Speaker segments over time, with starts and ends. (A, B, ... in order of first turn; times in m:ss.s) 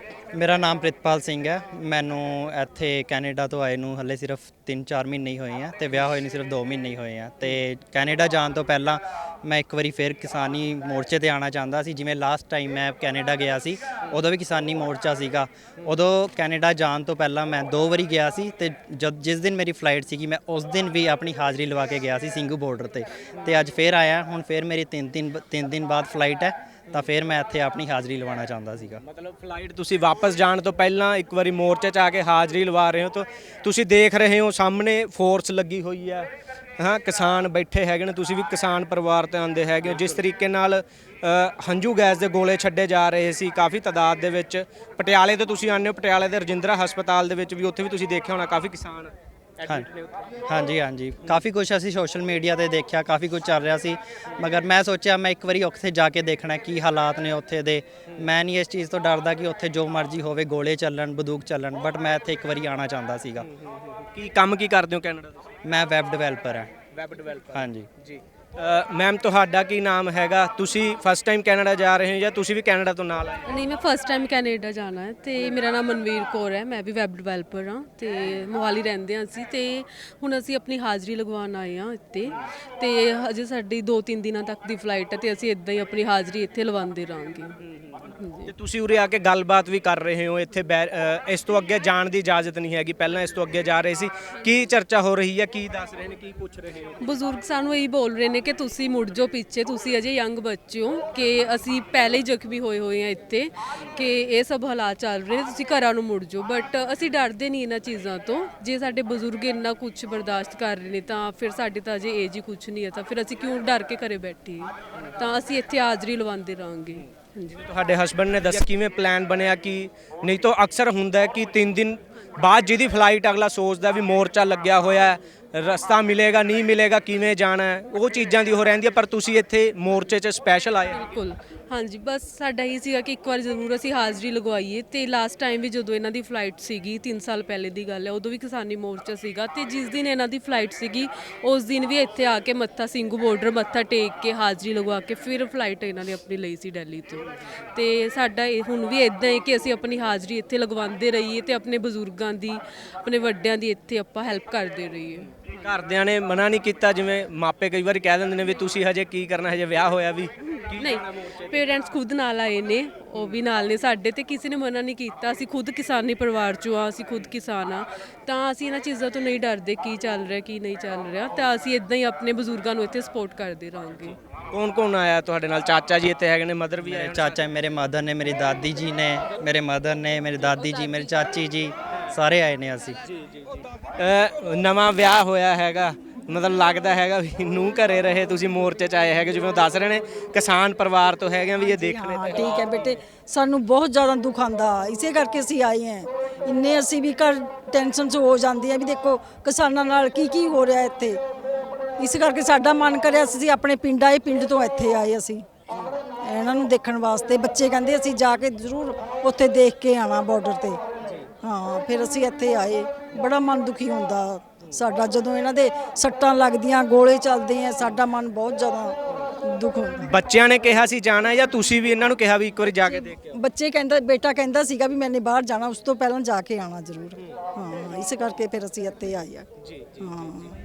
0:00.3-0:29.0 A
0:29.0-0:50.3 B
0:50.5-1:03.5 A
1:03.4-1:05.4 B
1:05.6-1:06.7 A
1:06.9-1:13.4 B
1:07.5-1:07.9 A
1:13.4-1:28.5 C
1:28.5-1:37.0 B
1:37.0-1:57.6 C
1:57.6-2:11.0 B
2:10.9-2:35.3 C
2:35.6-2:41.7 B
2:40.7-2:54.2 C
2:54.5-2:57.4 B
2:56.8-3:03.0 A
3:00.7-3:01.1 C
3:03.1-3:12.7 B
3:11.6-3:21.2 D
3:22.0-3:25.5 D
3:26.2-3:30.8 D
3:31.4-3:40.1 D
3:40.0-3:43.3 B
3:42.9-3:49.4 D
3:49.7-3:50.0 B
3:50.0-3:50.5 D